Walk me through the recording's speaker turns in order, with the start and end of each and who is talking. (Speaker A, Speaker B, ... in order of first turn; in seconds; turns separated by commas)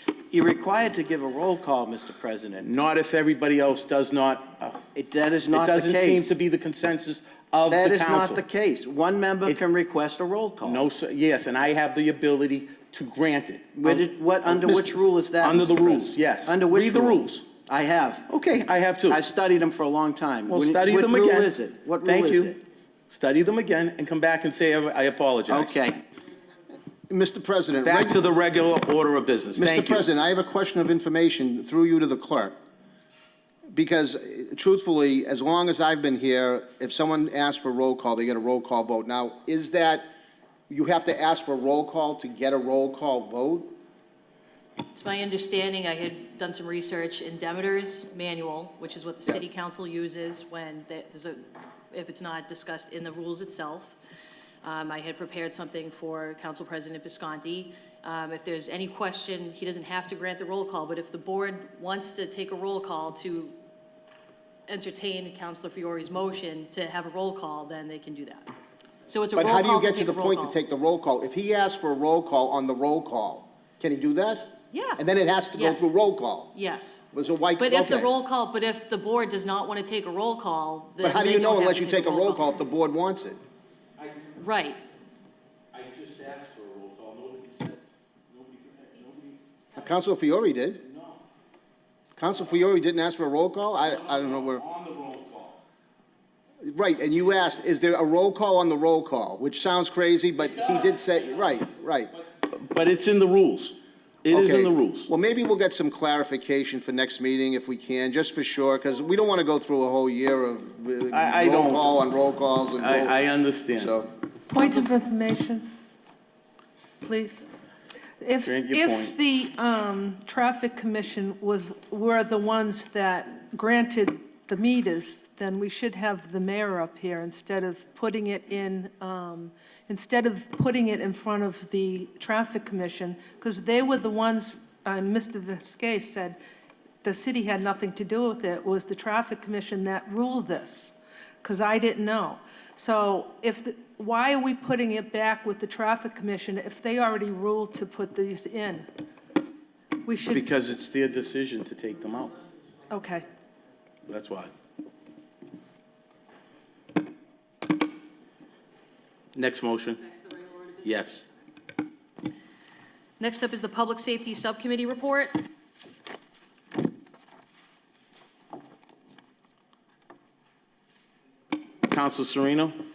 Speaker A: 0.3-2.6, Speaker B: 2.6-4.9, Speaker A: 5.0-6.4, Speaker B: 5.5-8.4, Speaker A: 7.7-10.8, Speaker B: 10.7-17.5, Speaker A: 13.8-18.3, Speaker B: 18.3-19.2, Speaker A: 19.1-22.6, Speaker B: 20.5-22.6, Speaker B: 23.1-25.8, Speaker A: 25.5-26.0, Speaker C: 27.1-28.2, Speaker B: 27.8-30.1, Speaker C: 29.6-32.5, Speaker C: 33.7-40.1, Speaker C: 40.7-43.7, Speaker D: 44.9-54.0, Speaker D: 54.6-63.6, Speaker D: 64.7-68.5, Speaker D: 69.1-70.6, Speaker C: 69.3-76.5, Speaker D: 74.7-75.0, Speaker D: 75.5-75.9, Speaker D: 76.5-77.0, Speaker C: 77.1-78.1, Speaker D: 77.6-82.6, Speaker C: 81.0-83.4, Speaker B: 84.0-84.3, Speaker D: 84.4-84.8, Speaker B: 85.7-89.4, Speaker C: 89.7-90.8, Speaker B: 90.8-91.2, Speaker C: 92.2-94.6, Speaker B: 93.8-95.6, Speaker C: 96.6-102.1, Speaker B: 100.5-101.0, Speaker B: 102.1-105.1, Speaker C: 104.3-113.2, Speaker B: 111.1-111.9, Speaker B: 112.8-113.9, Speaker C: 113.7-114.1, Speaker E: 114.5-115.7, Speaker E: 117.0-117.5, Speaker E: 118.2-136.4, Speaker B: 118.4-119.2, Speaker E: 137.0-148.9, Speaker E: 150.1-150.5, Speaker B: 150.2-152.4, Speaker E: 152.9-153.2, Speaker B: 154.1-154.6, Speaker B: 159.3-160.1, Speaker D: 160.2-160.7, Speaker B: 160.8-161.2, Speaker D: 163.2-165.4, Speaker B: 171.9-172.8